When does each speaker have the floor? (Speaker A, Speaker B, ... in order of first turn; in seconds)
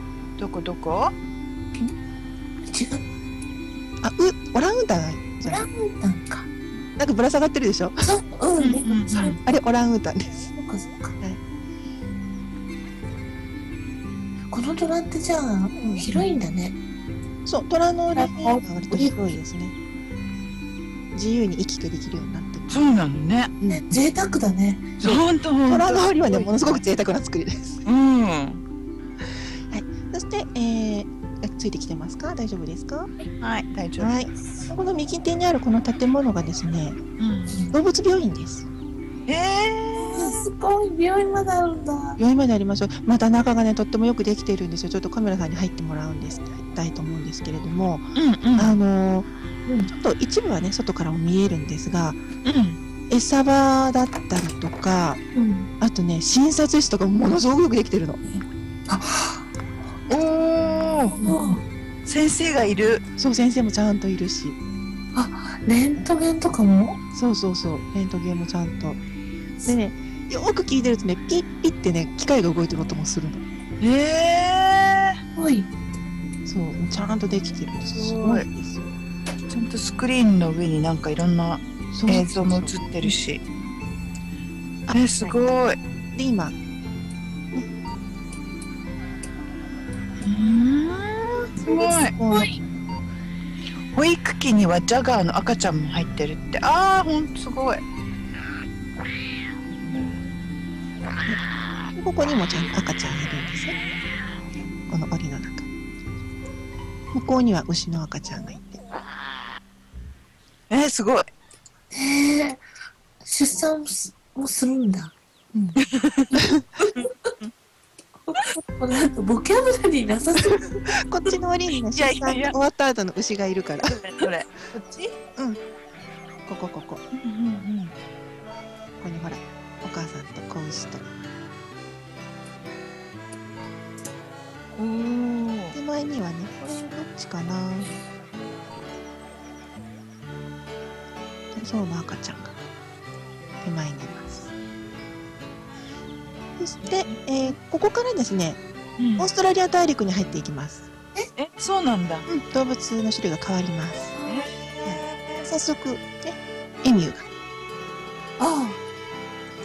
Speaker A: 0.4-1.1, 8.6-9.4, 22.7-23.5, 25.0-26.8, 27.9-28.6, 33.4-34.3, 37.2-37.6, 39.3-40.4, 48.1-48.7, 52.4-52.8, 60.1-61.2, 62.0-63.0, 73.8-75.2, 79.5-83.4, 84.9-85.8, 90.2-92.1, 93.9-97.8, 110.7-111.3, 115.8-116.4, 117.0-117.4, 121.9-122.5, 123.8-125.1, 127.1-127.9, 134.7-135.7, 149.0-149.3, 151.4-152.3, 154.2-155.4
Speaker B: 2.6-3.0, 5.4-6.5, 8.0-9.4, 10.6-11.1, 14.5-16.8, 18.1-19.2, 23.7-25.0, 40.0-42.2, 49.6-49.9, 55.3-55.7, 58.3-59.5, 61.1-61.6, 65.1-67.0, 75.3-75.7, 77.9-78.4, 111.9-112.6, 113.2-115.1, 118.2-120.5, 154.1-154.5, 158.4-158.8
Speaker C: 4.0-5.6, 7.0-8.0, 9.4-10.5, 15.8-16.1, 17.4-19.7, 21.1-22.8, 23.6-23.9, 25.0-27.8, 29.7-33.1, 34.0-37.0, 37.7-38.7, 42.2-49.3, 49.9-52.2, 53.1-55.2, 55.8-58.2, 61.2-61.6, 63.2-64.6, 67.1-69.0, 69.6-73.5, 76.4-79.0, 81.9-82.7, 86.1-86.5, 91.6-92.5, 99.8-100.1, 101.9-103.8, 104.6-105.7, 107.1-108.8, 115.5-115.8, 116.3-116.6, 120.5-124.0, 126.5-127.0, 129.0-131.1, 135.7-137.9, 141.5-142.6, 143.6-144.5, 146.6-148.6, 149.2-151.3, 152.3-154.1, 154.8-157.3